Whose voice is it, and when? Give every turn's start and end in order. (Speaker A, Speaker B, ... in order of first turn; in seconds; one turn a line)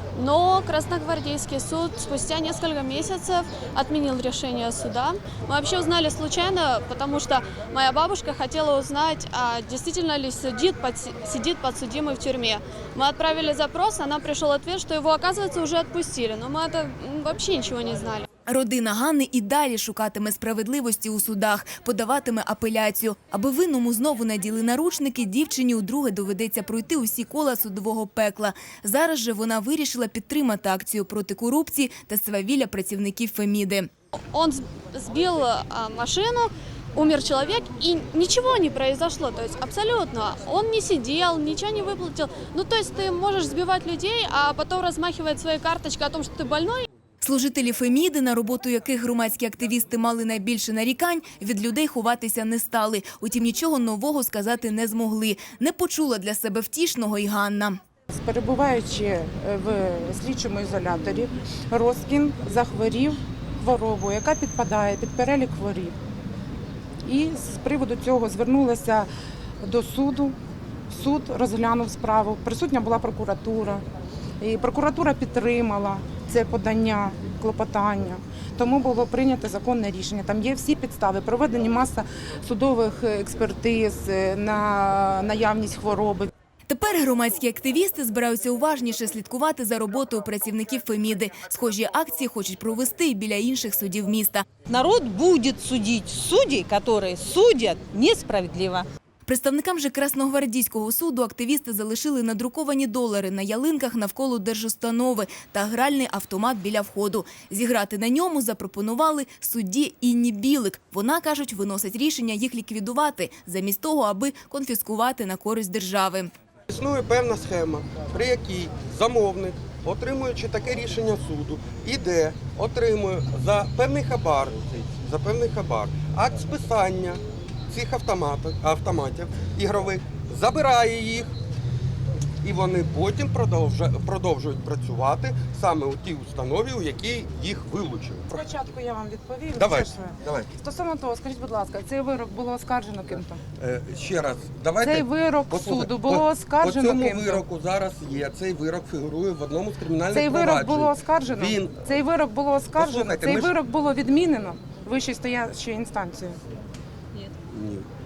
Speaker A: 0.1-18.2
Speaker B: 18.5-33.9
Speaker A: 34.3-46.9
Speaker B: 47.2-57.8
Speaker C: 58.1-65.9
Speaker C: 67.0-69.1
Speaker C: 69.6-70.3
Speaker C: 70.9-73.8
Speaker C: 74.4-86.3
Speaker B: 86.7-94.5
Speaker D: 94.7-98.9
Speaker B: 99.2-116.3
Speaker E: 116.7-131.3
Speaker E: 132.4-138.4
Speaker C: 138.3-143.4
Speaker E: 139.6-140.5
Speaker E: 143.6-151.9
Speaker C: 144.8-147.4
Speaker C: 150.1-156.4
Speaker E: 152.7-153.5
Speaker E: 157.5-157.9